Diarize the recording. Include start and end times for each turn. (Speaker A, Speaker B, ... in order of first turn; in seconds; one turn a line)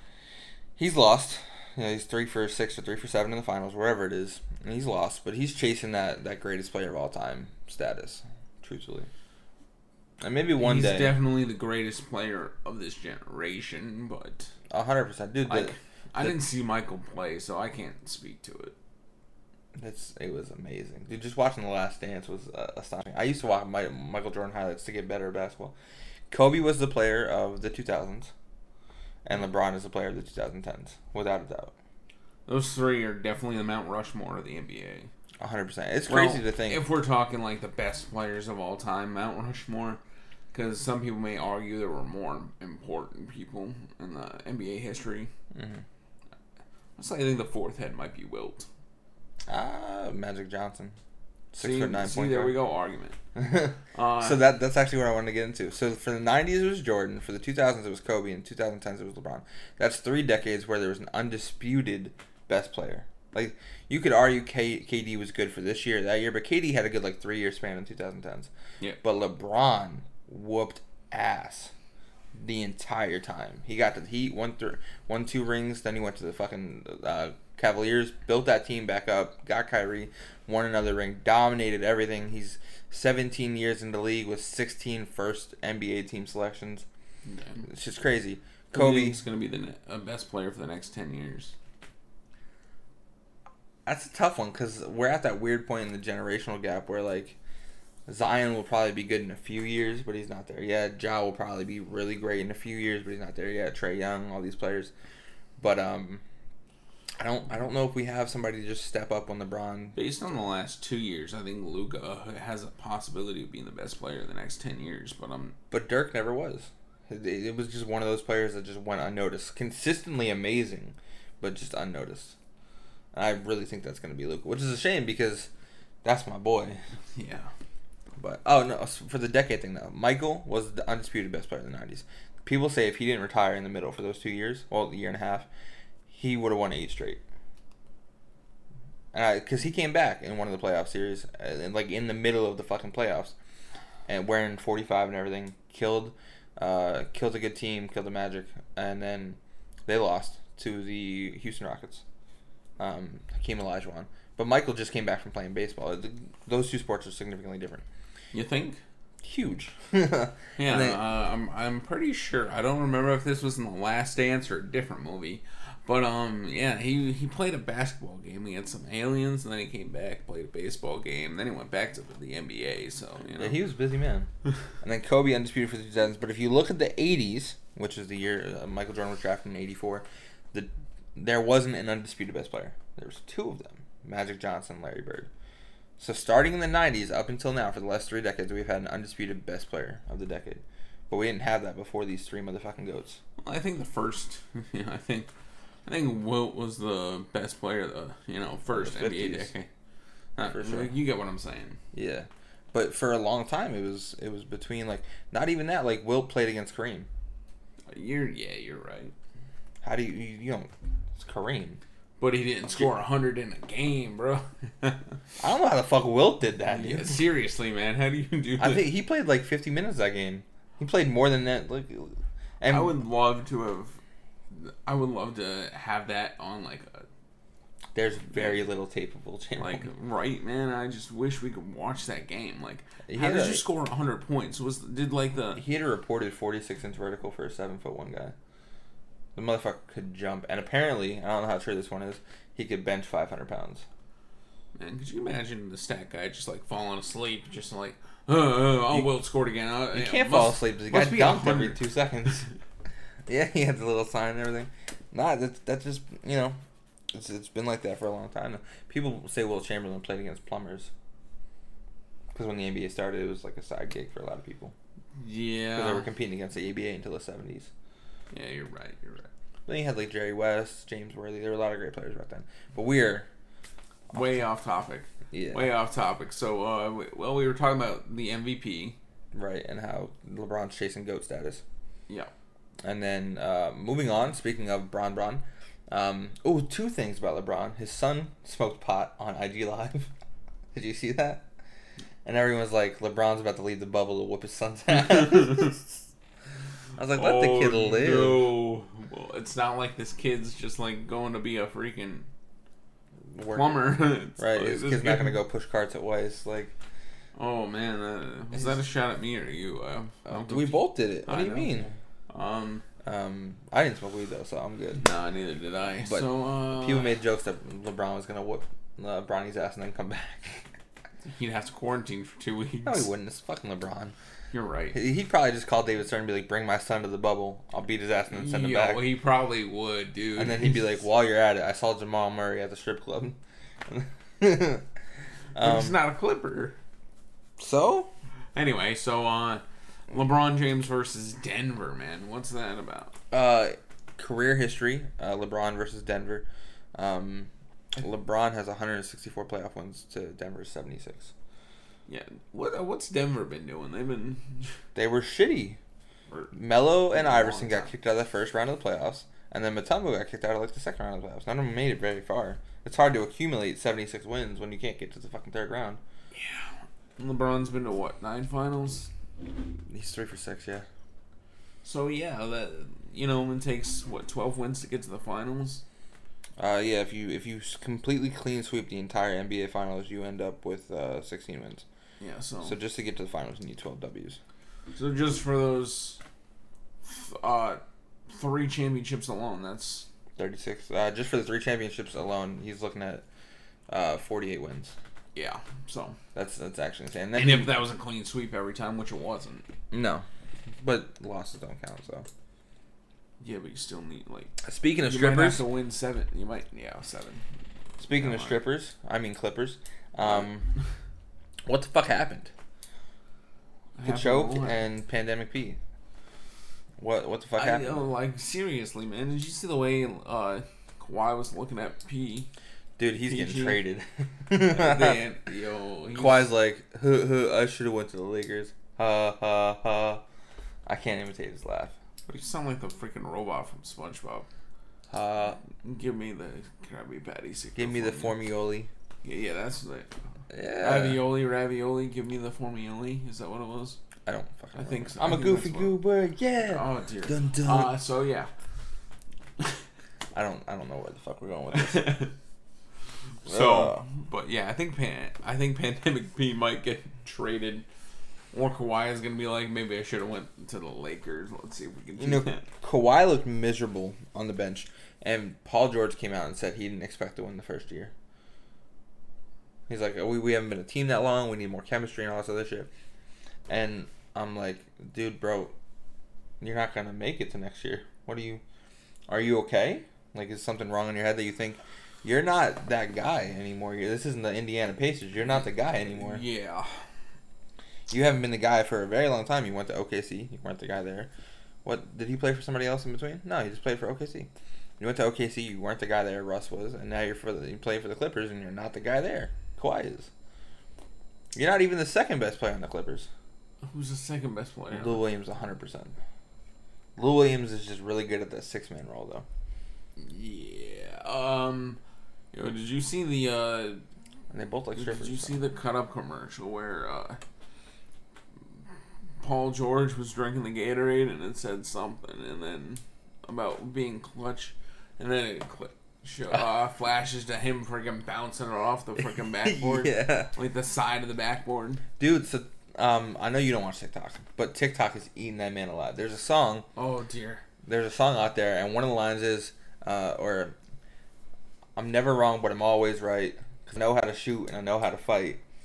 Speaker A: 0.8-9.1
Speaker A: 10.2-11.2
Speaker B: 10.6-14.5
Speaker A: 14.7-16.4
Speaker B: 15.4-18.7
Speaker A: 19.7-25.7
Speaker A: 26.3-28.3
Speaker A: 29.2-31.7
Speaker B: 32.5-35.1
Speaker A: 35.4-36.8
Speaker B: 36.1-40.0
Speaker B: 40.5-45.3
Speaker A: 45.5-45.8
Speaker B: 47.0-48.7
Speaker A: 49.5-51.0
Speaker A: 51.5-52.5
Speaker B: 51.6-53.2
Speaker A: 53.3-68.5
Speaker B: 53.9-54.4
Speaker A: 69.0-71.7
Speaker A: 72.3-86.8
Speaker B: 87.2-87.6
Speaker A: 87.7-89.2
Speaker B: 88.7-91.5
Speaker A: 93.9-97.4
Speaker A: 98.1-104.9
Speaker A: 105.6-106.2
Speaker A: 107.2-110.0
Speaker B: 109.9-115.5
Speaker A: 115.7-122.3
Speaker A: 123.1-125.5
Speaker A: 126.0-126.8
Speaker B: 127.1-127.5
Speaker A: 128.2-135.5
Speaker A: 136.1-137.2
Speaker A: 139.1-143.3
Speaker A: 144.1-152.0
Speaker A: 152.8-157.8
Speaker B: 158.3-158.8
Speaker A: 159.2-161.0
Speaker B: 160.6-173.6
Speaker A: 173.4-174.3
Speaker A: 174.8-185.3
Speaker A: 186.0-193.2
Speaker B: 193.4-195.3
Speaker B: 195.8-199.7
Speaker A: 198.7-199.5
Speaker B: 200.4-201.8
Speaker A: 200.4-200.9
Speaker A: 201.9-207.1
Speaker B: 207.9-209.1
Speaker A: 209.8-211.8
Speaker B: 212.2-215.1
Speaker A: 215.4-217.2
Speaker B: 216.7-218.9
Speaker A: 218.6-223.0
Speaker B: 222.7-224.0
Speaker B: 224.5-227.1
Speaker A: 227.9-229.9
Speaker B: 228.3-228.6
Speaker B: 229.6-235.6
Speaker A: 233.1-233.6
Speaker A: 235.6-238.3
Speaker A: 239.3-243.8
Speaker B: 244.8-251.8
Speaker A: 249.9-252.4
Speaker A: 253.3-256.6
Speaker A: 257.1-260.9
Speaker A: 262.3-264.7
Speaker B: 265.2-266.1
Speaker A: 265.8-267.7
Speaker B: 268.3-269.3
Speaker A: 269.7-273.3
Speaker B: 274.1-279.0
Speaker A: 275.3-275.7
Speaker A: 279.3-281.6
Speaker A: 282.8-290.1
Speaker A: 290.7-291.4
Speaker A: 292.2-296.0
Speaker A: 297.0-298.5
Speaker B: 297.1-302.3
Speaker A: 303.3-306.7
Speaker B: 303.5-305.4
Speaker B: 307.4-312.8
Speaker A: 310.3-311.9
Speaker A: 313.0-315.0
Speaker B: 315.0-317.1
Speaker A: 316.0-320.7
Speaker B: 321.3-323.1
Speaker A: 322.8-324.1
Speaker B: 324.5-325.0
Speaker A: 324.9-329.1
Speaker B: 328.3-330.8
Speaker A: 330.4-333.4
Speaker A: 333.9-334.9
Speaker A: 335.5-335.9
Speaker B: 335.6-336.8
Speaker A: 337.6-338.1
Speaker B: 338.5-343.1
Speaker A: 343.3-351.3
Speaker B: 352.1-354.7
Speaker A: 354.9-355.8
Speaker A: 356.5-366.0
Speaker B: 357.1-357.9
Speaker B: 366.3-369.1
Speaker A: 369.9-370.9
Speaker B: 371.8-375.8
Speaker A: 376.6-381.8
Speaker B: 382.2-382.8
Speaker A: 382.6-384.4
Speaker B: 384.9-386.2
Speaker B: 387.0-390.1
Speaker A: 390.4-393.2
Speaker A: 393.9-394.9
Speaker B: 395.4-396.2
Speaker A: 396.3-397.8
Speaker B: 397.3-399.6
Speaker A: 399.9-400.2
Speaker A: 400.8-402.2
Speaker B: 403.4-407.4
Speaker A: 404.6-405.6
Speaker A: 408.0-410.7
Speaker B: 408.1-408.6
Speaker B: 410.2-410.5
Speaker A: 411.6-412.5
Speaker B: 414.0-414.8
Speaker A: 414.0-415.8
Speaker A: 417.0-418.0
Speaker B: 417.6-422.5
Speaker A: 423.0-425.2
Speaker B: 423.2-423.8
Speaker B: 424.6-426.5
Speaker A: 426.1-430.2
Speaker A: 430.9-431.9
Speaker B: 432.3-434.5
Speaker A: 435.1-435.6
Speaker B: 435.8-438.4
Speaker A: 437.8-438.9
Speaker B: 439.2-440.1
Speaker A: 440.5-441.2
Speaker B: 440.8-444.0
Speaker A: 444.2-447.9
Speaker B: 444.8-446.0
Speaker B: 446.6-448.5
Speaker A: 450.3-452.2
Speaker B: 451.7-452.3
Speaker B: 453.4-457.9
Speaker A: 453.4-454.1
Speaker B: 458.5-462.6
Speaker A: 462.2-468.1
Speaker A: 469.9-472.9
Speaker A: 473.7-475.7
Speaker A: 476.6-478.6
Speaker A: 479.3-486.4
Speaker B: 486.1-487.0
Speaker A: 488.1-491.3
Speaker A: 491.8-500.3
Speaker A: 501.5-503.3
Speaker B: 503.8-505.2
Speaker A: 504.9-506.1
Speaker A: 507.2-509.4
Speaker B: 510.2-512.0
Speaker B: 512.5-514.0
Speaker A: 514.5-515.6
Speaker B: 514.9-517.4
Speaker B: 519.4-532.0
Speaker A: 529.6-530.5
Speaker A: 532.2-536.9
Speaker B: 537.0-537.6
Speaker A: 537.9-540.8
Speaker A: 542.0-545.6